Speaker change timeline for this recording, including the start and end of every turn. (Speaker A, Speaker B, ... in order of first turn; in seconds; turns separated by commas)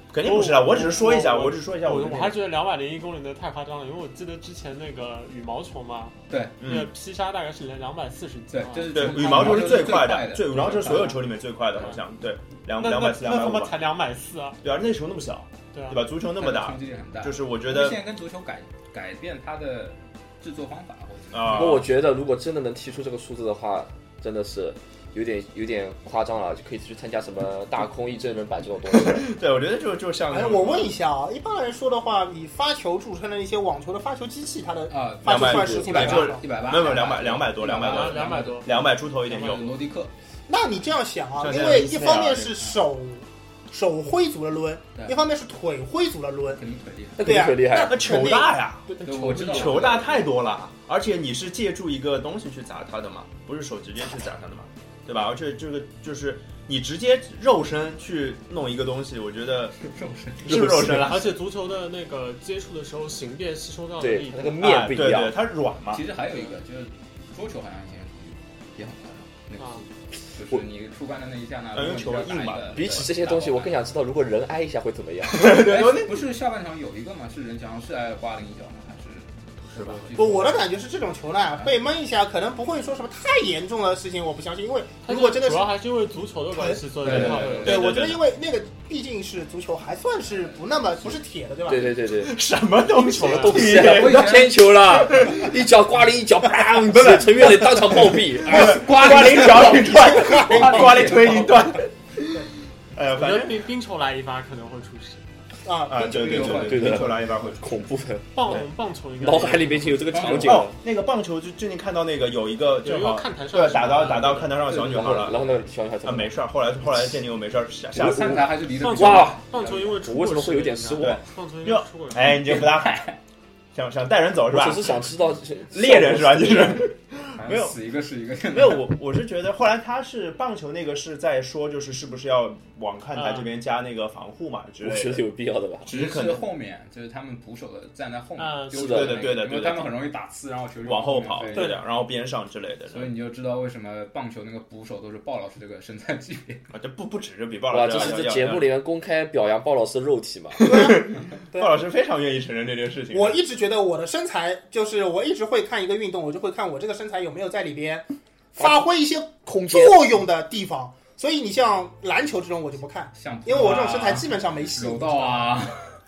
Speaker A: 0.1-2.4, Speaker B: 0.2-9.6, Speaker C: 6.3-6.6, Speaker A: 6.6-6.9, Speaker C: 8.5-11.2, Speaker A: 8.9-13.8, Speaker B: 12.8-14.6, Speaker A: 14.6-18.0, Speaker B: 15.7-16.0, Speaker C: 16.3-21.9, Speaker A: 21.3-21.9, Speaker D: 21.5-29.3, Speaker A: 28.9-30.9, Speaker E: 30.3-36.4, Speaker C: 34.9-40.1, Speaker A: 35.2-39.6, Speaker D: 35.4-36.1, Speaker B: 37.6-39.6, Speaker E: 40.5-46.6, Speaker A: 41.4-42.6, Speaker C: 46.5-47.2, Speaker D: 47.2-48.0, Speaker E: 47.2-49.0, Speaker A: 47.7-59.8, Speaker B: 49.0-50.1, Speaker C: 49.0-50.2, Speaker C: 59.8-60.7, Speaker A: 60.4-61.4, Speaker D: 60.5-61.1, Speaker B: 61.1-64.7, Speaker D: 64.0-65.4, Speaker A: 64.6-66.0, Speaker C: 65.9-73.9, Speaker B: 66.3-66.5, Speaker B: 69.6-69.8, Speaker A: 71.7-73.1, Speaker D: 72.7-75.6, Speaker A: 75.3-76.2, Speaker C: 75.4-80.7, Speaker A: 79.7-80.1, Speaker E: 80.2-85.8, Speaker B: 85.1-87.9, Speaker E: 86.5-86.8, Speaker C: 87.0-87.9, Speaker A: 87.1-88.2, Speaker E: 87.5-91.9, Speaker D: 91.7-92.4, Speaker A: 92.2-94.4, Speaker B: 93.1-93.6, Speaker D: 93.2-98.8, Speaker C: 93.5-94.8, Speaker A: 95.0-95.5, Speaker A: 96.9-103.7, Speaker C: 98.4-101.8, Speaker E: 99.9-100.9, Speaker B: 103.1-105.2, Speaker E: 105.7-106.5, Speaker A: 105.9-107.9, Speaker C: 105.9-107.3, Speaker D: 106.5-108.7, Speaker B: 108.3-110.2, Speaker D: 109.2-110.8, Speaker C: 110.1-110.7, Speaker A: 110.2-115.5, Speaker B: 112.8-114.6, Speaker C: 114.6-115.5, Speaker D: 114.7-116.4, Speaker A: 116.0-118.7, Speaker D: 118.0-119.5, Speaker C: 118.0-119.8, Speaker B: 118.7-122.5, Speaker D: 120.0-121.2, Speaker A: 121.0-123.1, Speaker C: 122.3-123.2, Speaker A: 123.7-125.1, Speaker D: 124.5-126.8, Speaker A: 125.7-127.8, Speaker C: 127.4-128.9, Speaker A: 128.5-135.2, Speaker B: 133.2-133.5, Speaker D: 134.8-135.9, Speaker A: 135.8-136.5, Speaker C: 135.9-141.8, Speaker B: 138.4-139.2, Speaker D: 138.8-139.1, Speaker A: 138.8-139.9, Speaker A: 140.8-143.1, Speaker C: 142.9-146.6, Speaker A: 146.7-148.7, Speaker D: 147.7-150.7, Speaker A: 150.6-153.4, Speaker E: 150.6-151.8, Speaker E: 153.1-165.5, Speaker D: 159.5-160.0, Speaker C: 163.2-166.0